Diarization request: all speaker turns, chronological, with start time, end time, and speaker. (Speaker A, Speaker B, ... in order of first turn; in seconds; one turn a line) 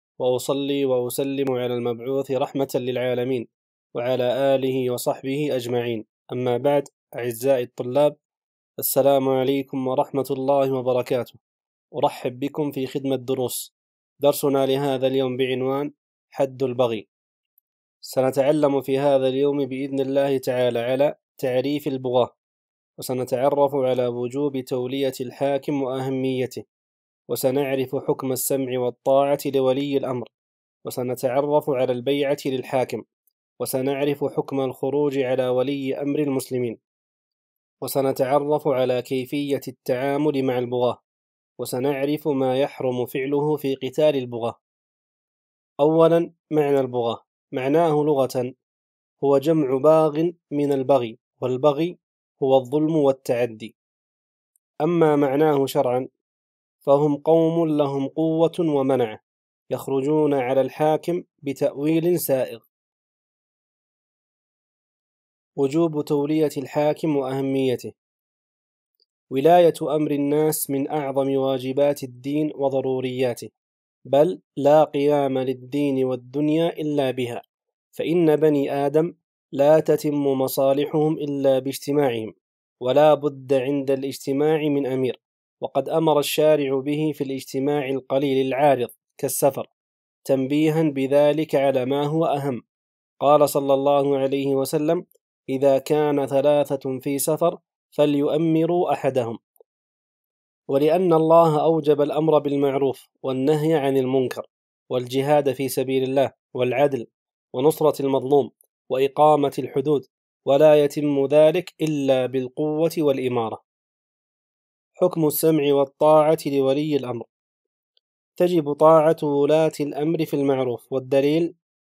Speaker A: 0.2-8.1
Speaker A: 8.8-11.4
Speaker A: 12.0-17.1
Speaker A: 18.0-22.3
Speaker A: 23.0-26.6
Speaker A: 27.3-30.3
Speaker A: 30.8-33.0
Speaker A: 33.6-36.8
Speaker A: 37.8-41.0
Speaker A: 41.6-44.6
Speaker A: 45.8-48.5
Speaker A: 49.2-53.7
Speaker A: 54.8-56.1
Speaker A: 56.8-62.6
Speaker A: 65.6-67.9
Speaker A: 69.3-73.5
Speaker A: 74.1-77.4
Speaker A: 77.9-89.7
Speaker A: 90.2-92.6
Speaker A: 93.2-99.4
Speaker A: 100.7-113.6
Speaker A: 115.0-117.3
Speaker A: 118.4-121.5